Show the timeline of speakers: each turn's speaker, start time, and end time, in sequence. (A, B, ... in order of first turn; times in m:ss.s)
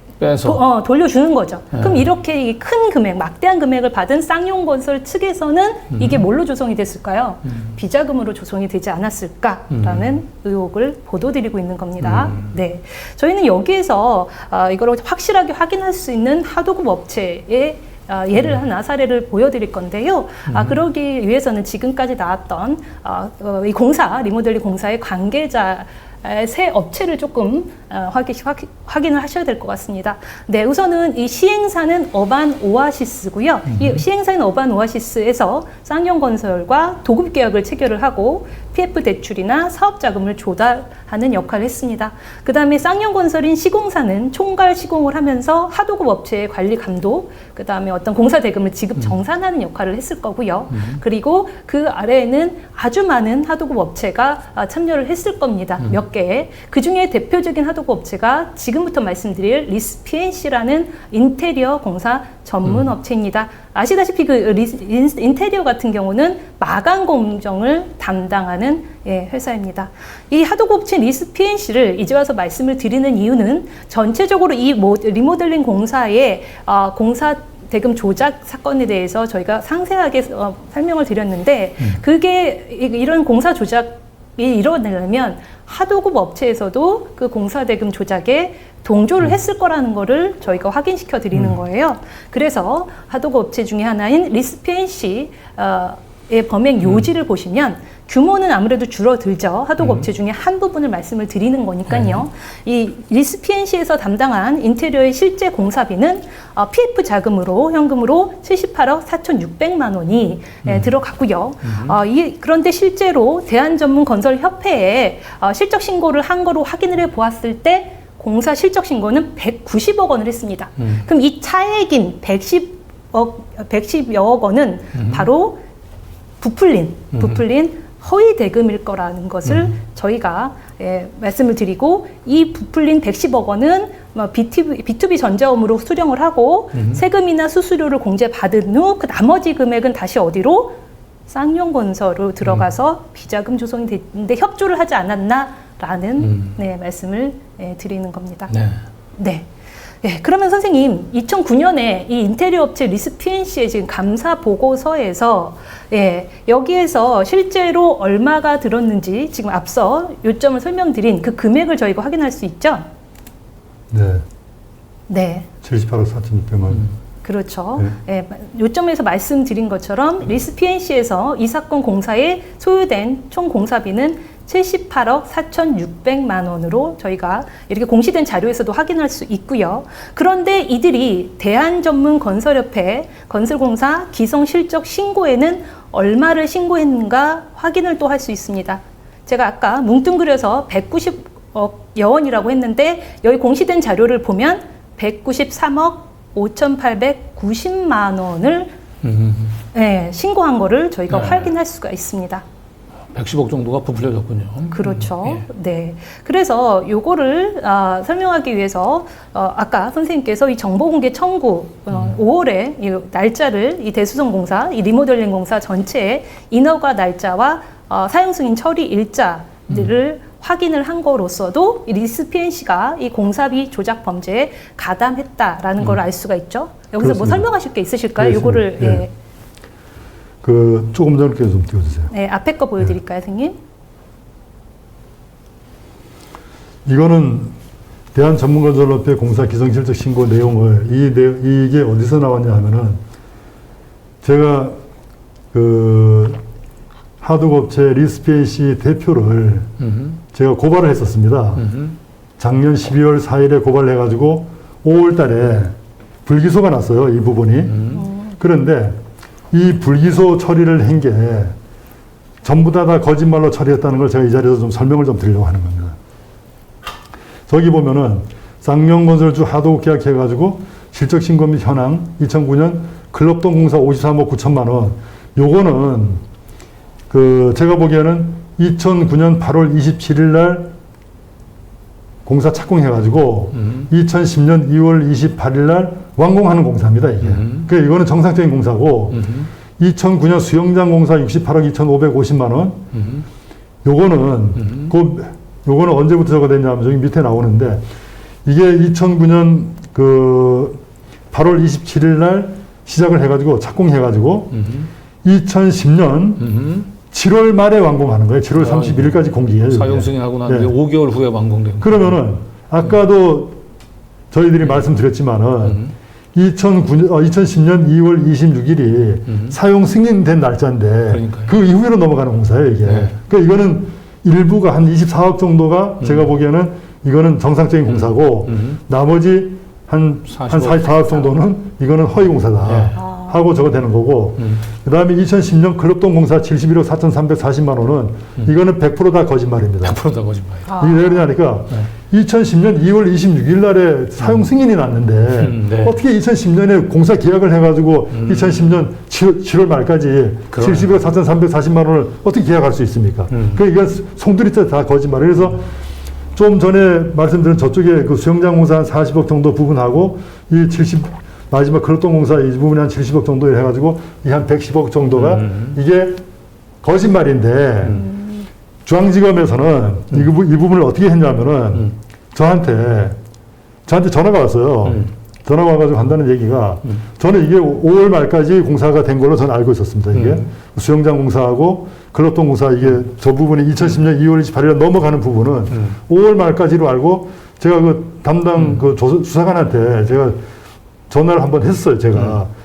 0:00.2-0:00.6 A
0:00.4-2:05.6 B
0:01.7-0:02.0 A
0:06.0-0:06.2 A
0:09.7-0:10.2 A
0:12.0-0:12.5 A
0:20.5-0:20.8 A
0:33.7-0:34.0 A
0:50.7-0:51.0 A
1:39.8-1:40.1 A
1:41.9-1:42.2 A
1:51.6-1:52.0 A
2:05.0-2:05.3 A
2:06.4-2:20.8 B
2:09.5-2:09.7 A
2:16.7-2:17.0 A
2:21.3-2:28.5 B
2:26.2-2:26.6 A
2:28.5-2:28.8 A
2:29.2-2:29.5 B
2:30.0-2:42.9 B
2:43.9-2:44.2 C
2:45.1-2:45.5 B
2:45.6-2:46.9 C
2:47.2-3:18.7 B
3:19.0-3:19.6 A
3:19.7-3:22.4 B
3:21.1-3:21.5 A
3:23.1-3:25.4 A
3:24.7-3:49.1 B
3:47.0-3:47.4 C
3:48.2-3:49.0 C
3:50.4-3:52.1 C
3:52.1-3:53.6 B
3:56.9-3:57.5 C
3:58.1-4:03.0 C
4:04.2-4:04.8 C
4:05.5-4:06.4 C
4:07.2-4:09.7 C
4:09.8-4:10.2 A
4:10.3-4:11.7 C
4:11.6-4:12.0 A
4:12.4-4:15.8 C
4:16.3-4:17.9 C
4:17.7-4:18.0 A
4:17.9-4:18.4 B
4:18.4-4:19.0 C
4:19.5-4:21.6 C
4:22.4-4:26.0 C
4:27.5-4:36.2 C
4:37.1-4:40.7 C
4:42.3-4:49.3 C
4:43.6-4:43.9 A
4:47.2-4:47.7 A
4:49.1-4:49.5 A
4:49.8-4:52.8 C
4:52.9-4:53.3 A
4:53.8-4:57.8 C
4:54.6-4:54.9 A
4:58.4-5:00.8 C
5:01.3-5:04.6 C
5:04.5-5:04.9 A
5:05.2-5:06.5 C
5:06.4-5:06.9 A
5:07.0-5:10.8 C
5:08.6-5:12.2 A
5:11.8-5:13.6 C
5:14.3-5:15.8 C
5:15.6-5:15.9 A
5:16.4-5:40.0 C
5:19.3-5:19.6 A
5:21.1-5:21.5 A
5:22.9-5:23.1 A
5:27.9-5:28.8 A
5:30.3-5:31.3 A
5:32.7-5:33.0 A
5:33.0-5:33.3 B
5:39.8-5:40.7 A
5:40.7-5:41.2 B
5:40.8-5:55.7 C
5:45.4-5:46.0 A
5:48.1-5:48.6 A
5:50.5-5:50.9 A
5:53.3-5:53.6 A
5:56.4-6:06.2 C
6:05.2-6:05.8 A
6:06.8-6:08.1 C
6:08.8-6:13.2 C
6:13.9-6:30.4 C
6:14.9-6:15.1 A
6:20.1-6:20.5 A
6:31.1-6:32.5 C